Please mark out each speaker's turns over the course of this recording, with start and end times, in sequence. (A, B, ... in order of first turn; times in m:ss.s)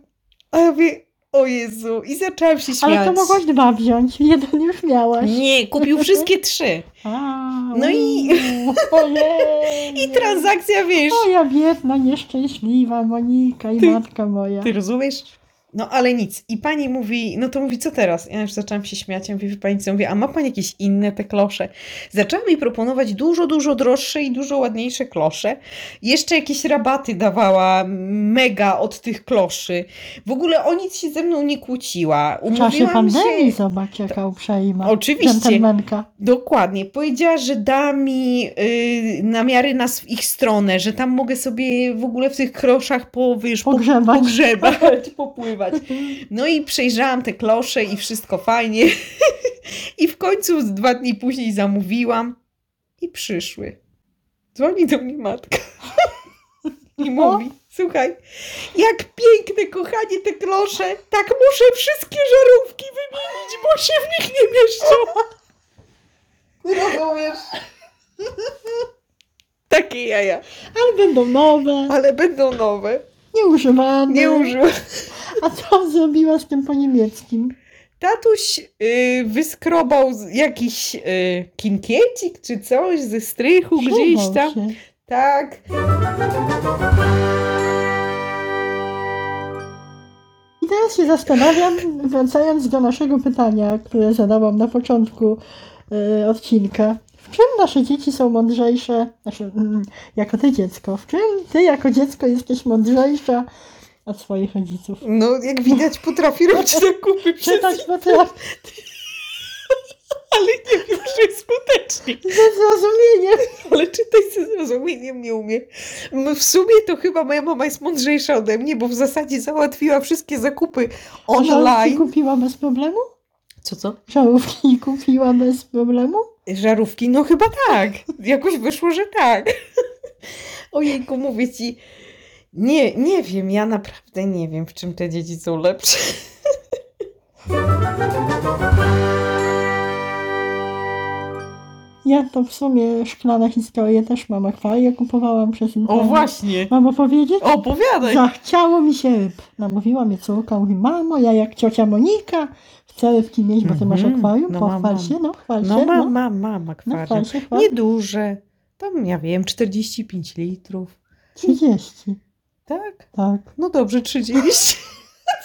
0:00.5-0:03.4 A
0:02.8-0:06.3 B
0:05.2-0:06.9 A
0:07.0-0:10.5 B
0:07.7-0:11.3 A
0:11.1-0:14.7 B
0:14.6-0:33.6 A
0:32.5-0:36.1 B
0:34.8-0:35.7 A
0:36.2-0:52.4 A
0:43.6-0:45.0 B
0:45.8-0:46.2 B
0:53.0-0:53.8 A
0:54.6-0:56.1 A
0:57.0-1:05.2 A
1:06.6-1:07.5 A
1:09.7-1:10.4 A
1:10.8-1:12.0 B
1:11.9-1:13.1 A
1:13.3-1:14.6 B
1:14.1-1:14.7 A
1:15.2-1:17.6 B
1:18.0-1:25.6 A
1:23.8-1:24.8 B
1:30.6-1:43.5 B
1:44.1-1:45.0 B
1:45.0-1:49.8 A
1:46.5-1:46.8 B
1:47.4-1:48.4 B
1:50.3-1:52.5 A
1:52.2-1:53.5 B
1:53.4-2:02.1 A
2:01.4-2:03.0 B
2:03.6-2:04.0 A
2:04.1-2:06.3 B
2:06.5-2:09.5 A
2:10.7-2:11.8 A
2:12.5-2:16.5 A
2:22.0-2:27.5 B
2:25.9-2:26.7 A
2:27.4-2:28.2 A
2:28.0-2:36.1 B
2:33.6-2:41.6 A
2:36.8-2:37.7 B
2:41.4-2:42.2 B
2:42.7-2:44.9 A
2:43.2-2:43.5 B